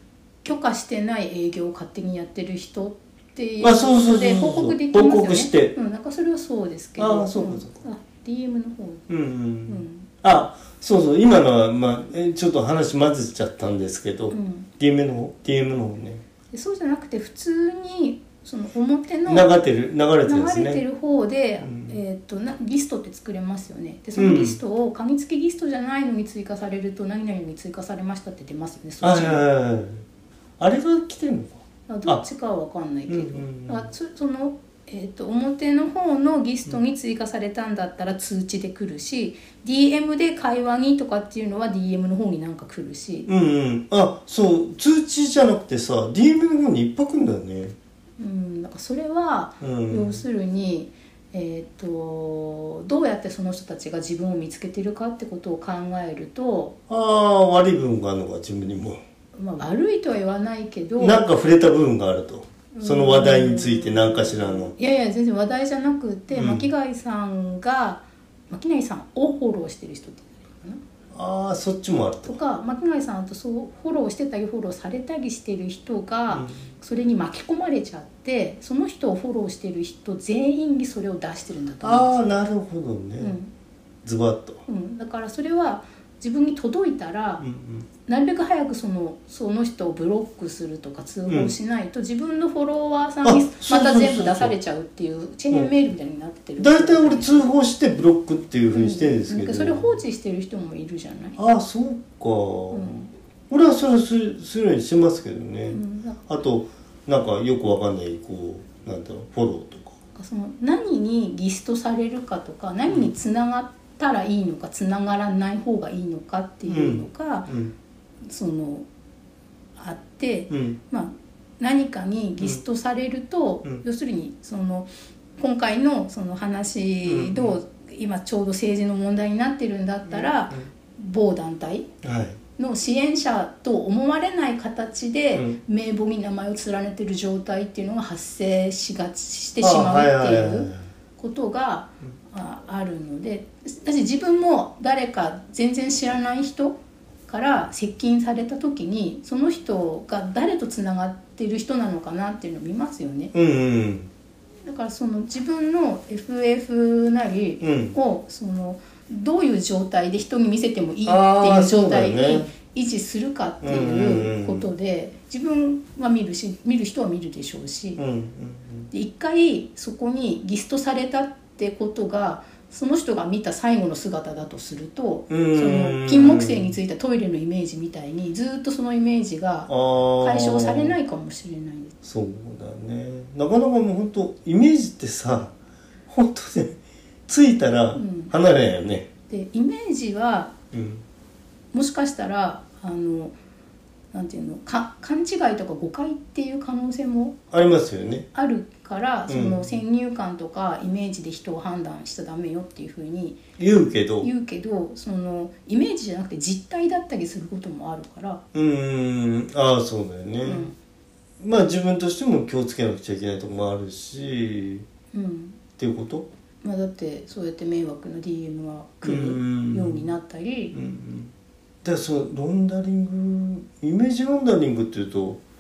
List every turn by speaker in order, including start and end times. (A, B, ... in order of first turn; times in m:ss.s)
0:00.4-0:09.1 A
0:03.6-0:05.7 B
0:07.0-0:07.8 B
0:09.1-0:16.2 B
0:09.7-0:10.1 A
0:14.3-0:14.7 A
0:16.5-0:19.5 A
0:19.3-0:20.8 B
0:20.2-0:29.4 A
0:21.6-0:22.0 B
0:24.2-0:24.6 B
0:29.0-0:30.0 B
0:30.6-0:32.2 B
0:31.9-0:43.3 A
0:33.1-0:33.9 B
0:43.3-0:47.8 B
0:48.2-0:56.8 A
0:49.6-0:50.2 B
0:56.9-0:59.0 B
0:59.4-1:01.2 A
1:01.0-1:04.7 B
1:02.7-1:10.8 A
1:06.3-1:06.7 B
1:11.1-1:12.4 B
1:12.3-1:22.3 A
1:16.3-1:16.7 B
1:21.8-1:23.4 B
1:23.2-1:23.5 A
1:24.0-1:24.6 B
1:24.7-1:27.4 A
1:27.4-1:27.9 B
1:28.1-1:37.5 A
1:31.3-1:31.5 B
1:33.2-1:34.5 B
1:36.6-1:39.9 B
1:38.7-1:41.4 A
1:41.4-1:43.0 B
1:42.7-1:43.1 A
1:43.5-1:50.0 B
1:45.7-1:46.2 A
1:50.2-1:57.5 A
1:56.7-1:57.7 B
1:58.2-1:58.9 A
1:59.8-2:11.9 A
2:00.5-2:00.8 B
2:07.0-2:07.6 B
2:10.1-2:10.7 B
2:12.0-2:12.4 B
2:12.6-2:33.3 A
2:19.6-2:20.8 B
2:33.3-2:34.1 B
2:34.6-2:48.0 A
2:37.6-2:38.0 B
2:41.1-2:42.5 B
2:43.6-2:44.7 B
2:48.0-2:48.9 B
2:48.9-3:02.0 A
2:55.3-2:56.7 B
2:59.7-3:01.0 B
3:02.0-3:05.5 B
3:06.1-3:06.8 B
3:07.3-3:09.1 B
3:08.0-3:08.3 A
3:09.3-3:10.6 A
3:10.7-3:11.0 B
3:11.7-3:13.3 A
3:14.1-3:17.4 A
3:17.5-3:18.3 B
3:18.3-3:23.4 A
3:19.3-3:19.7 B
3:23.6-3:24.3 B
3:24.2-3:28.4 A
3:28.5-3:30.7 B
3:30.4-3:30.8 A
3:31.4-3:34.9 B
3:35.1-3:35.6 A
3:35.8-3:36.3 B
3:36.6-3:40.8 A
3:39.0-3:40.1 B
3:40.7-3:41.3 B
3:41.8-3:45.4 B